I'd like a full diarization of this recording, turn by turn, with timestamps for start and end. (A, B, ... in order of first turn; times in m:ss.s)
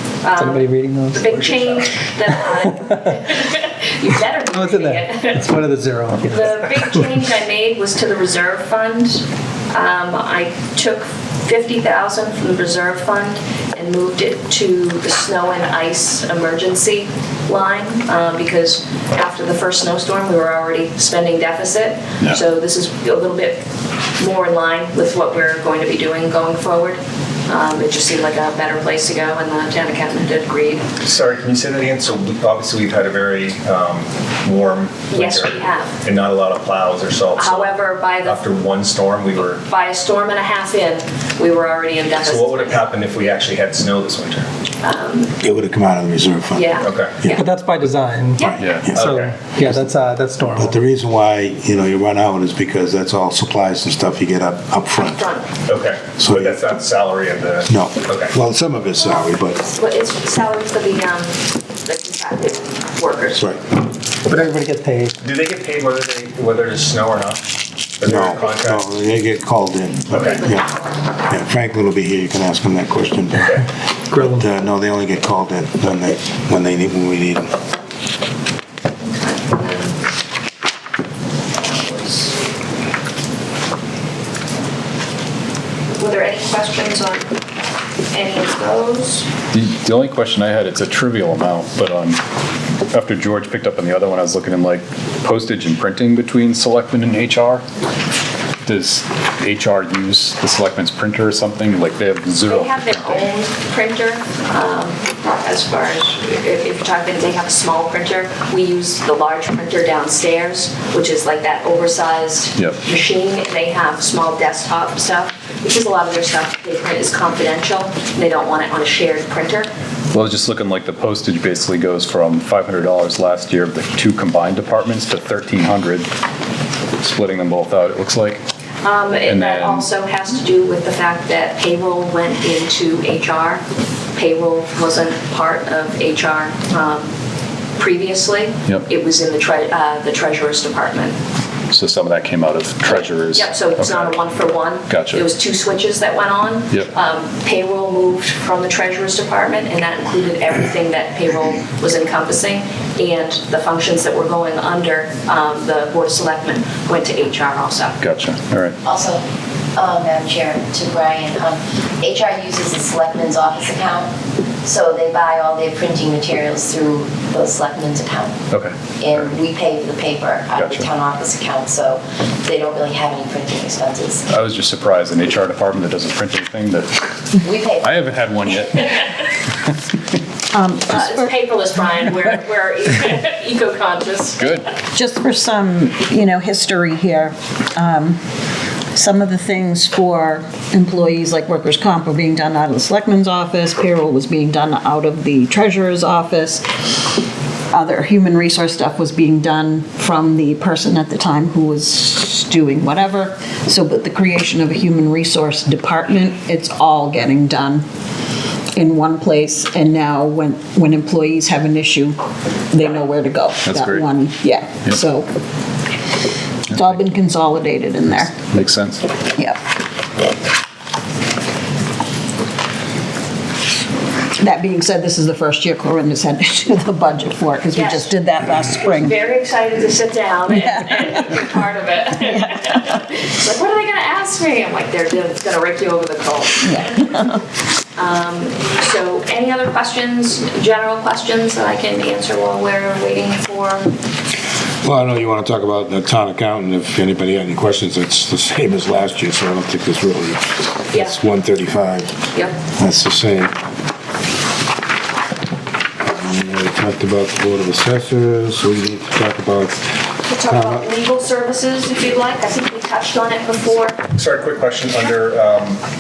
0:00.2-0:05.6 A
0:00.5-0:01.2 B
0:04.6-0:04.9 B
0:05.6-0:06.2 B
0:06.2-0:23.6 A
0:24.2-0:30.9 A
0:31.0-0:39.6 C
0:35.1-0:36.0 A
0:37.4-0:38.4 A
0:39.6-0:42.8 A
0:42.1-0:44.5 C
0:44.8-0:45.3 A
0:45.4-0:47.4 D
0:46.5-0:47.5 A
0:46.8-0:47.2 C
0:47.4-0:48.4 B
0:48.4-0:48.8 A
0:48.4-0:55.2 D
0:48.6-0:49.0 E
0:48.9-0:49.5 C
0:49.1-0:50.6 B
0:55.1-0:55.5 A
0:55.7-0:58.3 C
0:56.2-0:56.6 D
0:57.7-0:59.6 D
0:59.0-1:03.5 A
1:04.4-1:05.1 B
1:05.2-1:07.5 C
1:08.0-1:08.9 C
1:08.0-1:10.7 D
1:10.1-1:10.4 C
1:10.2-1:10.7 A
1:11.3-1:17.5 D
1:19.0-1:20.0 A
1:21.6-1:22.4 A
1:25.9-1:27.4 A
1:28.1-1:29.3 A
1:29.5-1:32.2 E
1:32.9-1:37.6 E
1:38.6-1:42.8 E
1:42.5-1:59.7 A
2:00.1-2:06.1 E
2:07.0-2:08.4 E
2:08.8-2:13.6 A
2:09.3-2:09.9 E
2:14.2-2:17.1 A
2:17.8-2:21.2 A
2:21.7-2:24.2 E
2:22.9-2:38.0 A
2:24.9-2:25.2 E
2:38.0-2:38.8 E
2:38.8-2:48.4 F
2:48.5-2:49.4 E
2:49.0-2:54.2 F
2:50.6-2:50.9 E
2:54.3-2:59.1 E
2:57.4-2:58.0 F
3:00.5-3:01.3 G
3:00.9-3:04.5 A
3:04.4-3:04.7 E
3:04.9-3:08.2 G
3:08.9-3:16.6 G
3:17.7-3:27.8 G
3:28.8-3:32.2 G
3:32.7-3:35.3 G
3:33.6-3:34.2 E
3:36.7-3:37.1 E
3:36.7-3:38.3 G
3:38.4-3:39.1 E
3:44.4-3:49.2 G
3:47.7-3:48.2 A
3:48.8-3:57.0 A
3:50.5-3:51.5 G
3:52.2-3:53.0 G
3:56.6-3:57.4 G
3:58.0-4:03.9 A
4:04.8-4:12.2 D
4:10.9-4:11.2 A
4:12.8-4:13.5 D
4:16.0-4:19.9 D
4:20.3-4:24.0 A
4:20.5-4:20.9 D
4:24.1-4:25.8 C